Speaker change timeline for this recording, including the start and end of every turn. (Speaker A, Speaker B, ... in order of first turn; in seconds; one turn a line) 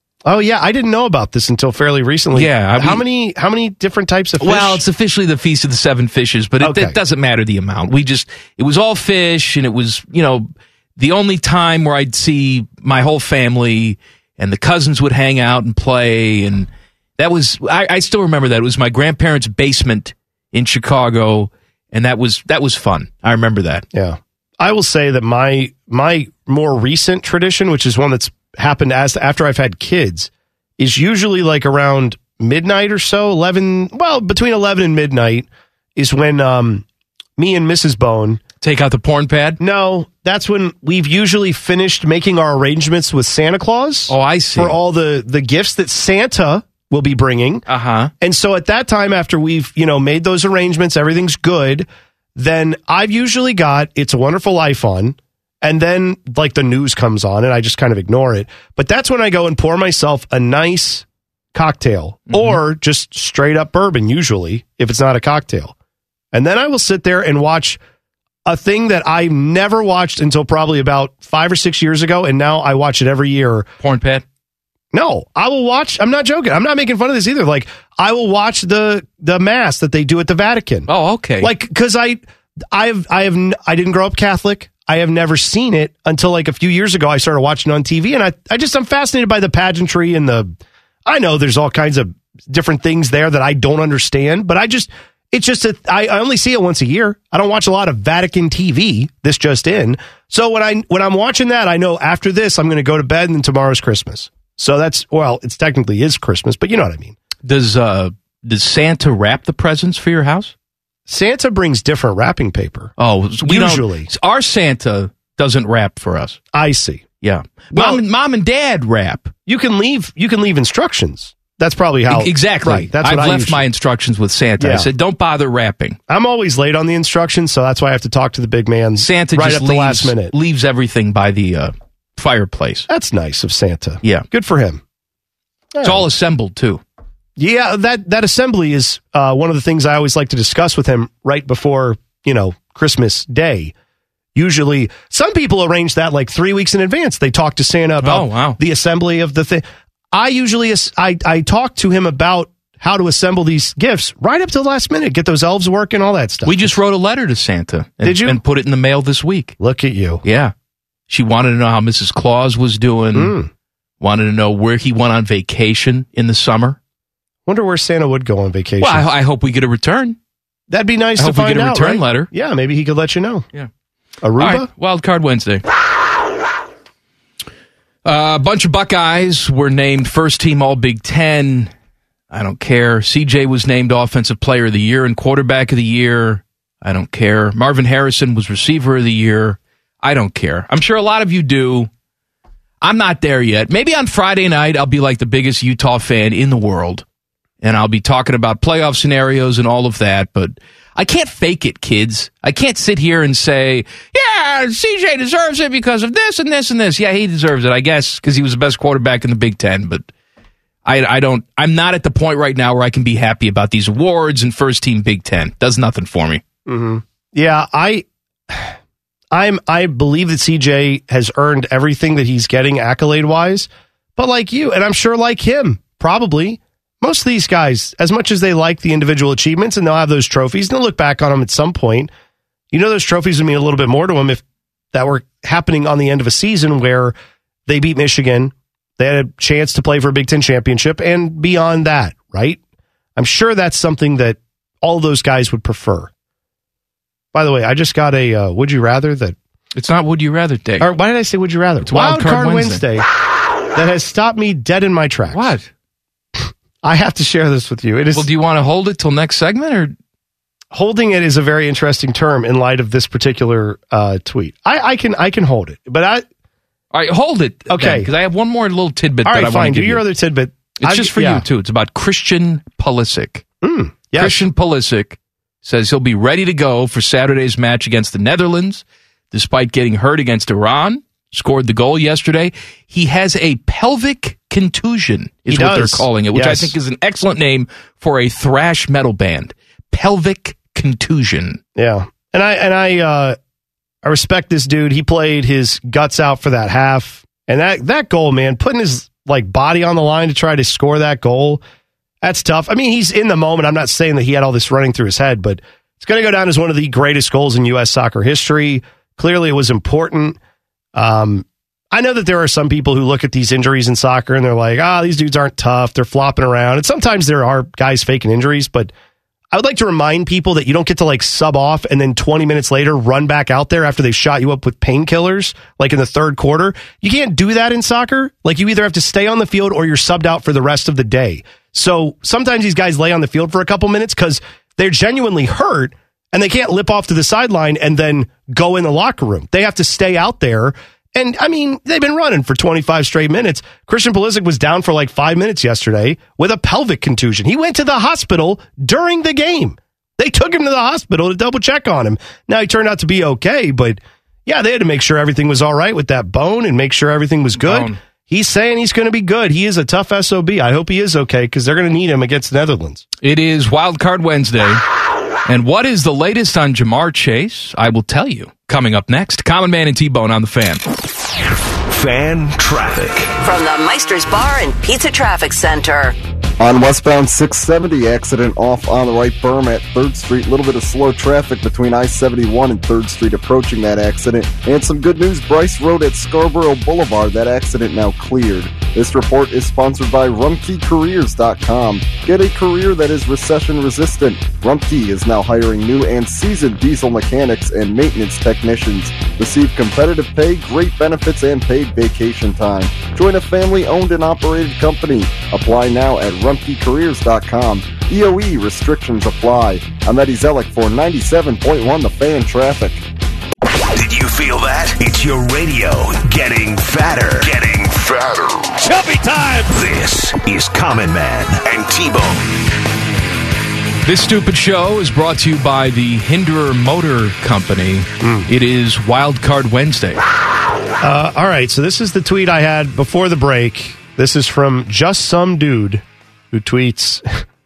Speaker A: 0.2-4.8
Speaker B: 2.3-3.0
Speaker B: 4.4-23.9
Speaker A: 6.6-7.0
Speaker A: 23.9-36.9
Speaker A: 37.4-38.4
Speaker B: 38.6-39.6
Speaker A: 39.6-47.6
Speaker B: 44.1-44.8
Speaker B: 47.7-48.1
Speaker A: 48.2-65.8
Speaker B: 62.3-62.6
Speaker A: 66.3-67.8
Speaker A: 68.5-73.7
Speaker B: 73.8-74.2
Speaker A: 74.9-80.9
Speaker B: 80.9-81.5
Speaker A: 81.4-90.5
Speaker A: 91.1-107.2
Speaker B: 107.4-110.5
Speaker A: 111.1-112.9
Speaker B: 113.0-116.4
Speaker A: 113.4-114.1
Speaker A: 116.5-117.0
Speaker B: 117.2-119.3
Speaker A: 117.7-118.0
Speaker A: 119.5-123.7
Speaker B: 122.1-126.0
Speaker A: 124.6-124.9
Speaker A: 126.1-130.3
Speaker B: 129.0-132.9
Speaker A: 132.9-134.8
Speaker A: 135.7-136.1
Speaker B: 135.8-136.8
Speaker A: 137.4-143.7
Speaker A: 144.3-156.7
Speaker B: 148.0-148.6
Speaker B: 156.4-159.6
Speaker A: 158.0-158.4
Speaker A: 159.6-160.2
Speaker B: 160.2-160.5
Speaker B: 161.1-163.3
Speaker A: 163.1-163.5
Speaker B: 164.0-166.8
Speaker A: 167.5-169.1
Speaker B: 168.8-170.2
Speaker A: 170.7-173.5
Speaker B: 171.2-172.3
Speaker A: 174.2-174.7
Speaker B: 174.4-175.6
Speaker B: 178.1-181.7
Speaker B: 182.3-191.9
Speaker B: 192.8-197.0
Speaker B: 197.6-210.1
Speaker B: 210.8-216.4
Speaker A: 216.7-218.7
Speaker A: 219.3-232.1
Speaker A: 232.7-237.2
Speaker A: 237.7-242.6
Speaker A: 243.2-246.1
Speaker A: 247.3-249.4
Speaker B: 249.8-250.9
Speaker A: 250.8-253.1
Speaker B: 251.8-252.8
Speaker A: 253.7-255.5
Speaker B: 255.3-255.7
Speaker A: 256.4-258.3
Speaker B: 258.1-260.0
Speaker A: 260.7-266.2
Speaker B: 266.9-270.0
Speaker A: 267.7-268.1
Speaker A: 269.2-271.5
Speaker B: 270.8-273.4
Speaker A: 273.6-274.5
Speaker B: 274.2-291.6
Speaker A: 285.5-286.8
Speaker A: 291.8-293.4
Speaker A: 294.0-301.6
Speaker A: 302.2-310.4
Speaker A: 310.9-318.9
Speaker A: 319.5-363.1
Speaker B: 357.6-358.0
Speaker B: 363.2-364.8
Speaker B: 365.5-370.8
Speaker C: 371.9-373.3
Speaker D: 373.4-376.1
Speaker E: 376.6-413.0
Speaker C: 413.9-418.9
Speaker B: 418.9-419.7
Speaker C: 419.7-422.4
Speaker B: 424.1-430.2
Speaker A: 428.2-428.5
Speaker A: 431.0-437.2